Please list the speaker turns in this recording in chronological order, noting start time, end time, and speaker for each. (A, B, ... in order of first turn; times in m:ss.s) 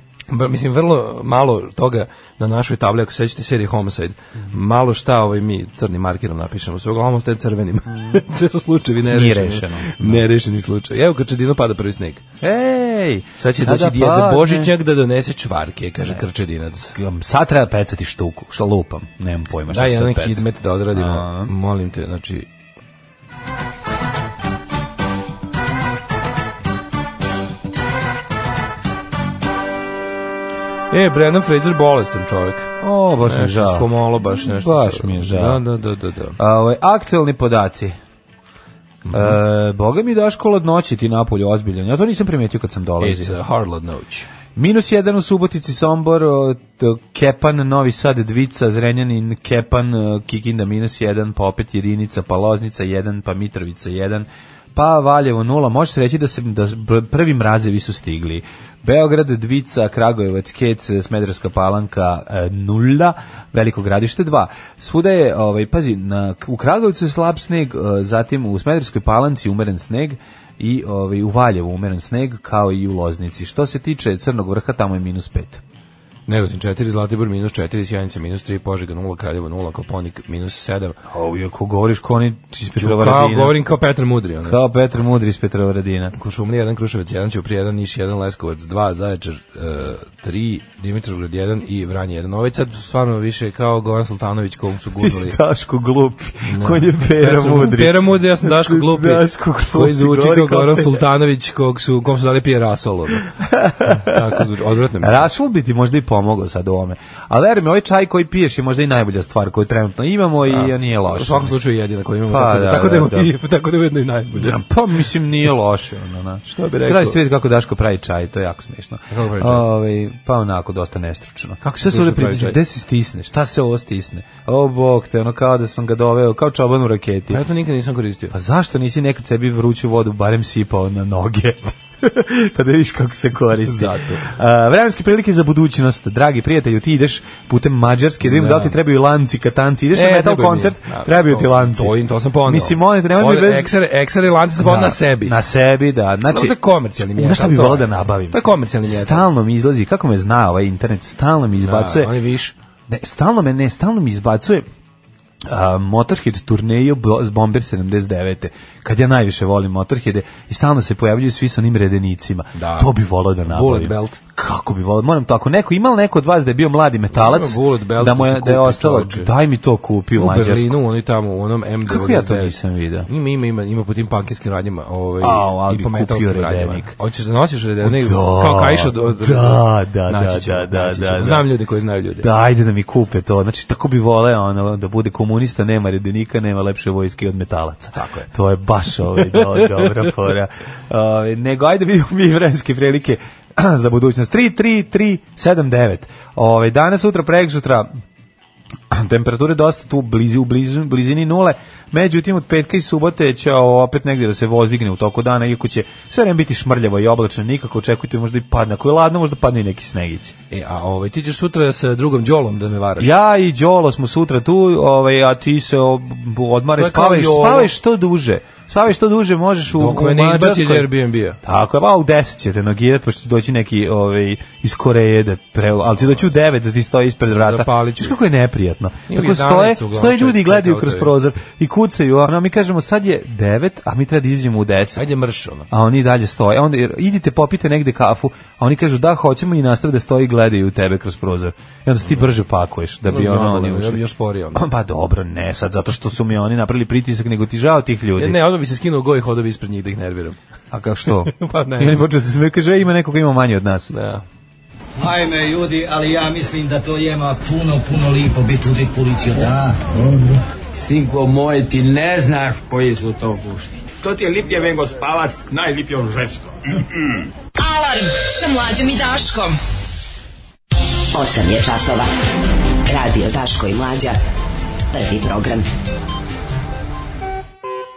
0:00.3-0:12.2 A
0:09.1-0:10.2 B
0:12.4-0:14.7 B
0:13.4-0:17.0 A
0:16.9-0:21.5 B
0:19.7-0:22.5 A
0:30.9-0:36.4 A
0:32.8-0:35.6 B
0:36.4-0:38.0 B
0:39.0-0:39.4 A
0:39.1-0:43.4 B
0:43.0-0:44.3 A
0:44.6-1:15.6 B
1:16.3-1:21.0 A
1:21.1-1:23.6 B
1:22.8-1:24.6 A
1:24.4-1:26.2 B
1:26.2-1:35.4 A
1:35.0-1:41.0 B
1:36.4-1:43.3 A
1:43.3-1:44.4 B
1:44.0-1:45.3 A
1:45.0-1:51.6 B
1:50.5-1:54.6 A
1:52.3-1:53.3 B
1:54.4-2:07.4 B
1:56.5-1:57.2 A
1:59.1-1:59.6 A
2:01.6-2:02.6 A
2:07.3-2:08.3 A
2:08.3-2:23.8 B
2:13.7-2:14.3 A
2:18.2-2:18.8 A
2:19.9-2:25.4 A
2:24.6-2:32.2 B
2:26.3-2:29.3 A
2:31.6-2:32.6 A
2:32.9-2:34.7 B
2:35.4-2:50.8 B
2:42.6-2:42.9 A
2:43.5-2:44.2 A
2:47.1-2:49.3 A
2:50.2-2:52.6 A
2:51.9-2:53.1 B
2:53.1-3:02.3 A
2:55.2-2:56.9 B
2:57.8-3:01.5 B
3:02.2-3:17.9 B
3:07.9-3:08.3 A
3:09.3-3:10.0 A
3:18.9-3:30.4 B
3:30.5-3:33.1 A
3:33.0-3:40.9 B
3:36.8-3:37.7 A
3:39.7-3:41.4 A
3:41.4-3:55.0 B
3:47.3-3:48.2 A
3:49.1-3:51.1 A
3:55.0-3:55.7 A
3:55.7-4:04.0 B
4:03.1-4:04.7 A
4:04.5-4:08.4 B
4:08.2-4:10.4 A
4:10.7-4:13.9 B
4:11.3-4:12.0 A
4:13.9-4:14.2 A
4:15.0-4:26.9 C
4:27.6-4:29.6 D
4:31.1-4:32.1 E
4:32.9-4:34.2 E
4:34.9-4:35.7 E